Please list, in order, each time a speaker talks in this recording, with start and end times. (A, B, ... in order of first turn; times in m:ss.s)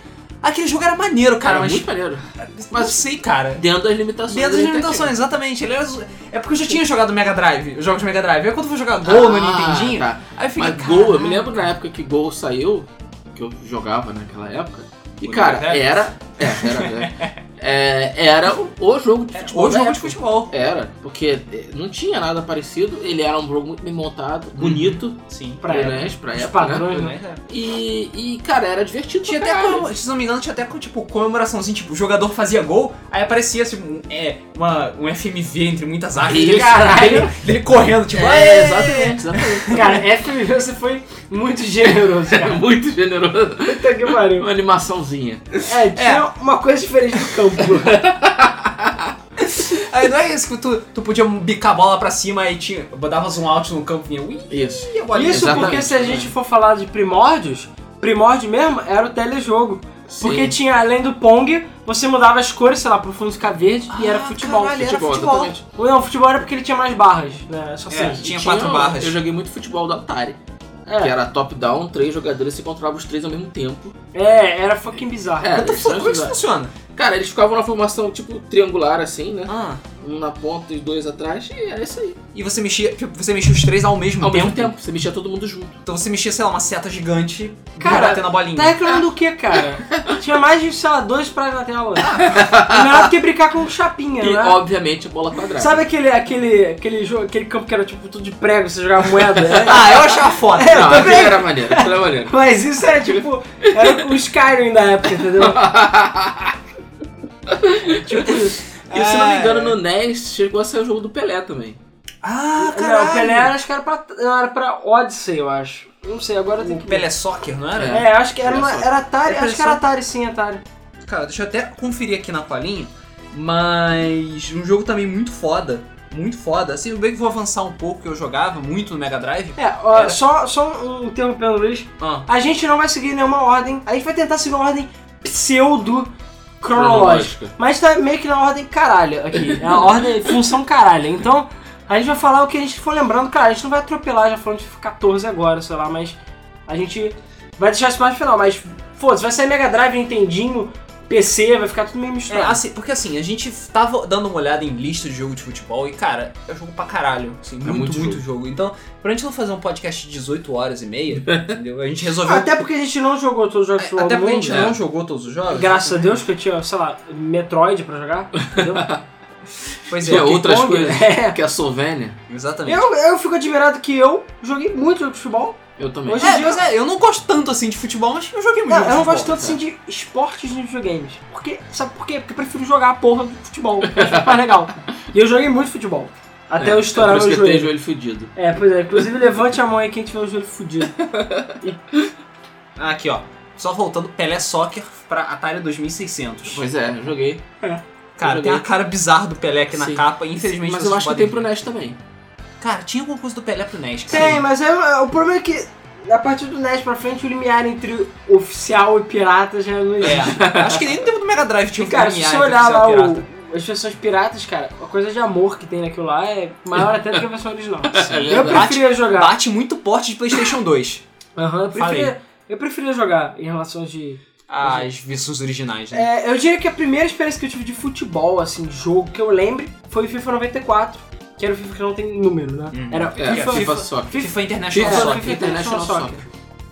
0:00.4-0:03.6 A
0:01.4-0:05.1 B
0:04.3-0:11.6 A
0:09.0-0:26.9 B
0:15.2-0:17.3 A
0:19.3-0:20.5 A
0:24.6-0:25.9 A
0:25.6-0:27.2 C
0:26.8-0:27.4 A
0:27.5-0:29.9 B
0:29.2-0:39.9 A
0:36.2-0:36.9 B
0:36.3-0:37.3 C
0:38.1-0:40.0 B
0:38.7-0:39.2 C
0:39.7-0:42.6 C
0:41.8-0:45.7 B
0:43.6-0:44.5 C
0:45.6-0:48.2 C
0:46.0-0:46.2 A
0:47.6-0:49.1 B
0:49.4-0:56.2 A
0:54.5-0:56.3 B
0:55.1-1:04.9 C
1:00.1-1:00.6 B
1:03.9-1:05.5 A
1:04.8-1:05.6 B
1:05.7-1:08.2 C
1:07.9-1:09.1 A
1:07.9-1:10.4 B
1:10.9-1:11.1 C
1:11.0-1:13.9 B
1:14.1-1:15.6 C
1:15.4-1:16.4 B
1:15.5-1:16.7 A
1:16.9-1:22.2 B
1:19.5-1:19.8 A
1:22.3-1:24.7 A
1:24.2-1:25.8 B
1:25.8-1:28.8 A
1:27.8-1:34.6 C
1:32.0-1:32.4 A
1:32.2-1:33.1 B
1:34.2-1:35.8 B
1:35.6-1:45.6 C
1:39.6-1:41.3 A
1:40.6-1:42.3 B
1:45.4-1:46.6 B
1:47.4-1:48.3 B
1:47.8-1:48.6 C
1:48.8-1:49.8 A
1:48.9-1:51.8 B
1:52.2-1:53.5 A
1:52.6-1:57.1 C
1:56.6-1:58.0 A
1:57.7-1:58.9 B
1:57.9-2:00.6 C
1:59.2-1:59.8 A
2:01.0-2:10.2 A
2:09.6-2:32.6 C
2:12.0-2:12.3 A
2:16.7-2:17.5 B
2:19.4-2:19.9 B
2:32.3-2:42.6 A
2:37.6-2:38.2 B
2:41.2-2:41.5 B
2:42.2-2:44.8 C
2:43.8-2:46.2 A
2:45.5-2:48.9 C
2:48.4-2:49.0 B
2:49.9-2:50.3 A
2:50.0-2:52.2 B
2:50.0-2:51.4 C
2:52.3-2:52.8 A
2:52.6-2:56.6 C
2:55.8-2:56.4 B
2:56.2-2:59.4 A
2:58.7-3:07.7 C
2:59.2-2:59.6 B
3:03.9-3:04.4 B
3:06.6-3:08.3 B
3:08.3-3:11.0 C
3:11.0-3:11.5 B
3:12.8-3:16.6 A
3:16.5-3:17.4 B
3:18.2-3:21.4 A
3:18.2-3:18.6 B
3:19.7-3:22.0 B
3:22.6-3:24.4 A
3:24.1-3:30.8 C
3:30.0-3:33.2 A
3:30.1-3:30.8 B
3:31.8-3:39.3 C
3:37.9-3:38.7 B
3:38.1-3:41.0 A
3:41.4-3:44.8 C
3:41.7-3:42.1 A
3:44.5-3:46.1 A
3:45.9-3:56.2 C
3:52.7-3:55.4 A
3:53.1-3:56.2 B